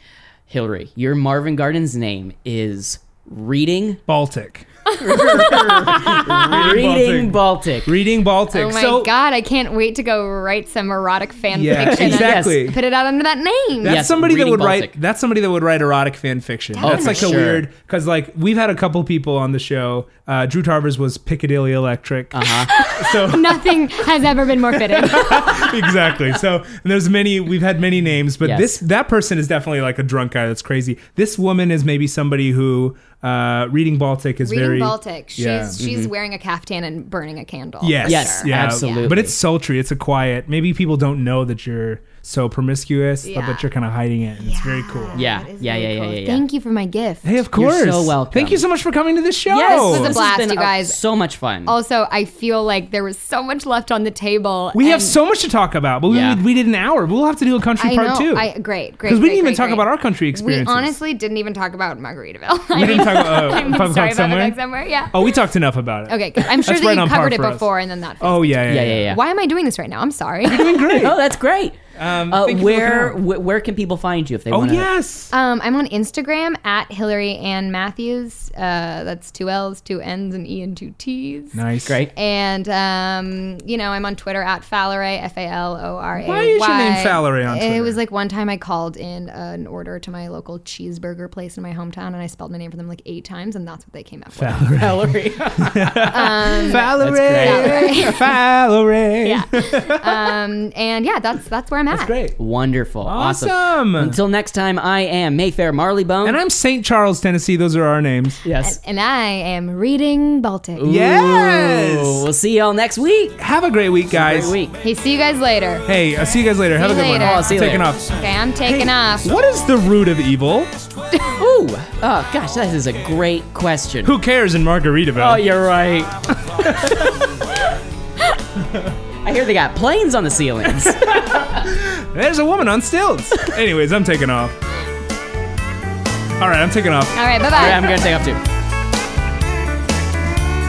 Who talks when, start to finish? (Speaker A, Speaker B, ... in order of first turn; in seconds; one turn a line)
Speaker A: 0.5-4.0
Speaker B: 4.1-4.7
Speaker A: 5.0-7.9
Speaker C: 5.1-6.4
Speaker B: 5.9-9.1
Speaker C: 8.5-14.1
Speaker B: 11.5-12.8
Speaker A: 11.8-12.7
Speaker B: 13.8-23.8
Speaker A: 13.8-14.9
Speaker C: 16.7-17.4
Speaker A: 16.8-17.7
Speaker A: 22.3-22.7
Speaker C: 22.7-26.1
Speaker B: 24.7-35.8
Speaker A: 28.4-28.8
Speaker C: 34.4-39.2
Speaker A: 35.8-36.1
Speaker B: 37.8-45.3
Speaker A: 38.0-39.4
Speaker C: 43.2-43.7
Speaker C: 44.4-47.4
Speaker A: 45.1-46.4
Speaker B: 47.2-50.2
Speaker A: 47.5-48.7
Speaker A: 49.5-51.7
Speaker C: 49.6-51.0
Speaker C: 51.7-55.2
Speaker B: 54.7-58.5
Speaker A: 56.1-56.4
Speaker C: 57.8-65.4
Speaker B: 59.1-61.0
Speaker B: 62.7-64.6
Speaker B: 65.1-67.7
Speaker C: 66.1-71.1
Speaker B: 68.2-69.1
Speaker A: 68.7-69.2
Speaker B: 70.4-71.2
Speaker A: 70.9-71.8
Speaker B: 72.0-73.2
Speaker A: 72.3-74.9
Speaker B: 74.5-75.3
Speaker C: 75.3-81.6
Speaker B: 81.5-82.0
Speaker A: 81.9-82.1
Speaker C: 82.1-94.8
Speaker B: 86.2-88.0
Speaker B: 94.4-100.3
Speaker A: 94.8-98.2
Speaker C: 96.1-98.3
Speaker C: 99.2-102.2
Speaker B: 101.9-102.4
Speaker A: 102.4-106.4
Speaker B: 103.0-104.2
Speaker B: 106.2-108.4
Speaker A: 108.4-108.8
Speaker C: 108.6-110.8
Speaker A: 110.8-113.4
Speaker B: 110.8-112.3
Speaker B: 113.4-114.6
Speaker A: 114.1-114.7
Speaker C: 114.8-115.9
Speaker B: 115.9-120.7
Speaker C: 116.7-119.3
Speaker A: 117.2-117.9
Speaker A: 121.1-124.2
Speaker B: 124.0-125.5
Speaker A: 125.2-126.9
Speaker B: 126.5-127.1
Speaker A: 129.2-131.2
Speaker B: 130.8-134.6
Speaker B: 136.4-137.2
Speaker C: 137.2-138.0
Speaker A: 137.5-138.4